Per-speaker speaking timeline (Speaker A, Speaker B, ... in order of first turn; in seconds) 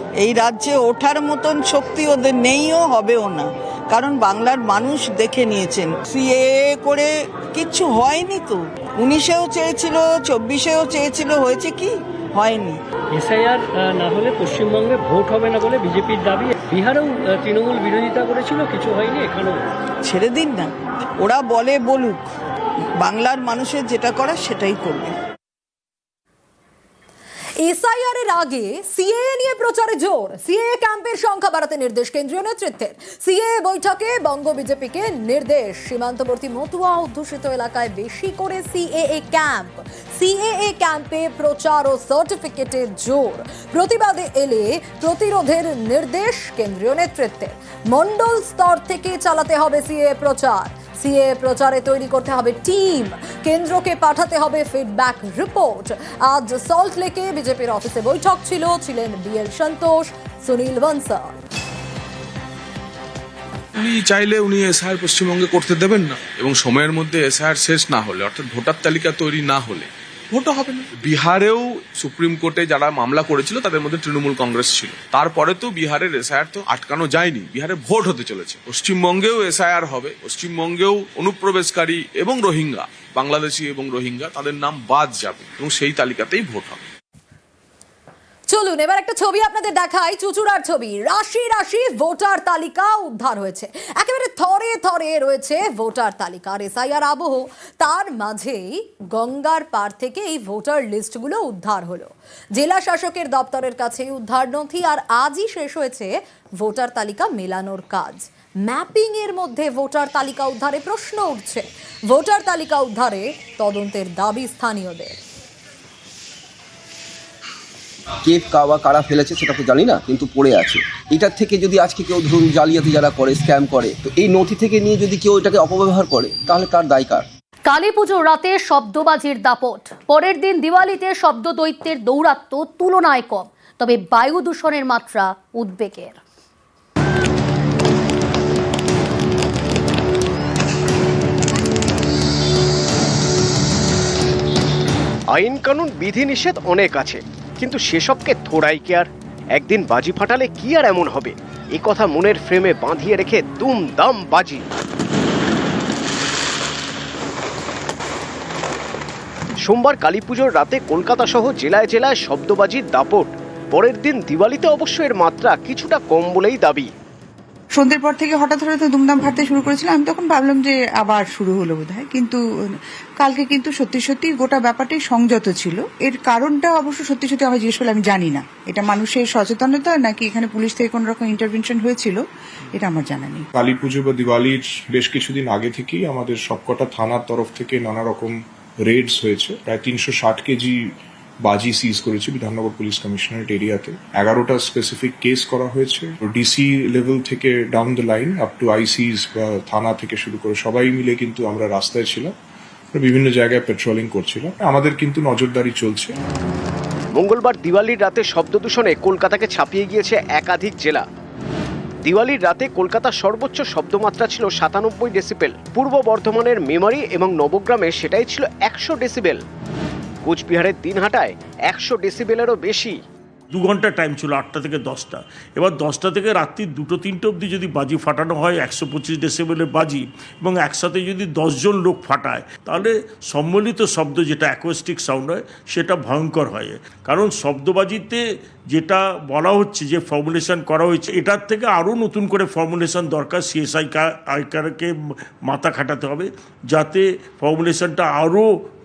Speaker A: 0.2-7.0, 7.5-8.5, 9.1-11.8, 12.4-12.7, 20.1-20.6, 21.2-22.2, 23.0-25.1
Speaker B: 13.1-19.6
Speaker C: 27.6-61.4, 88.5-115.2
Speaker D: 63.8-86.8
Speaker E: 118.2-127.3
Speaker F: 127.7-136.2
Speaker G: 145.3-154.6, 159.7-166.9, 207.2-211.0, 212.0-219.4, 220.2-223.0
Speaker H: 168.1-172.4, 173.2-182.2, 182.8-183.4
Speaker I: 183.5-202.3, 202.9-206.1
Speaker J: 223.5-238.2, 238.7-244.9, 245.5-248.4